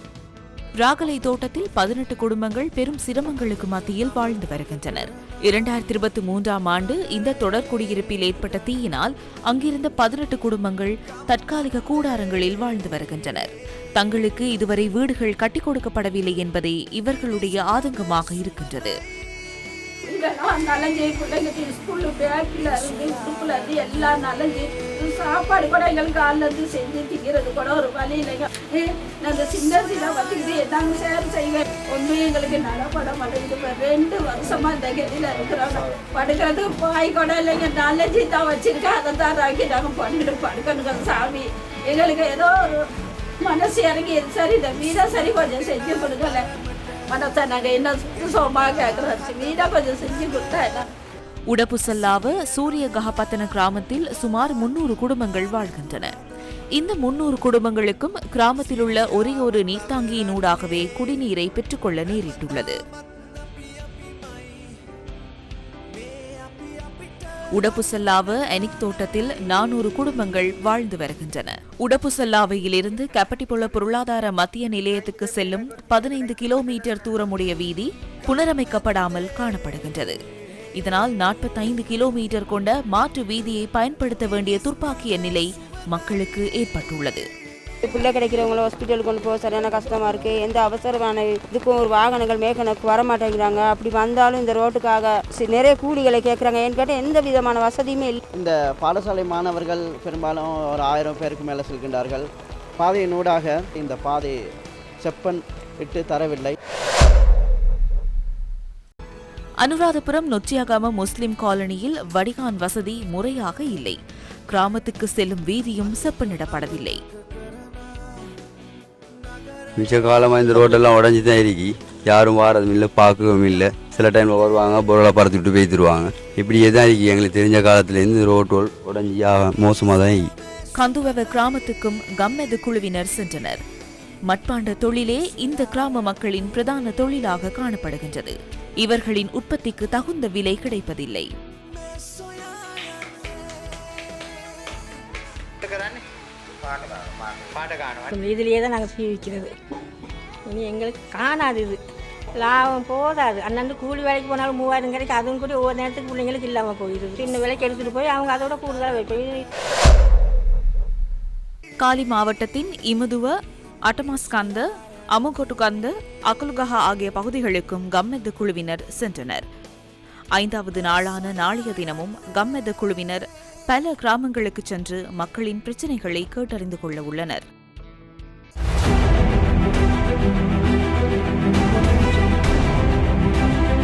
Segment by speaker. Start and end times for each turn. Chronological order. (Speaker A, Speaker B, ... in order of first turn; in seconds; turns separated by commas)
Speaker A: 0.8-19.0, Speaker B: 20.1-42.8, Speaker B: 43.4-46.5, Speaker B: 47.1-50.9, Speaker A: 51.5-56.1, Speaker A: 56.8-62.8, Speaker A: 67.5-80.2, Speaker A: 80.8-87.2, Speaker C: 87.8-98.2, Speaker D: 98.3-102.2, Speaker D: 102.8-104.3, Speaker D: 105.0-106.6, Speaker A: 109.6-114.0, Speaker A: 114.5-117.0, Speaker E: 119.8-130.3, Speaker A: 130.8-133.6, Speaker A: 134.3-141.3, Speaker F: 148.1-149.5, Speaker F: 150.5-151.8, Speaker F: 152.4-159.4, Speaker A: 161.8-169.4, Speaker A: 170.3-177.4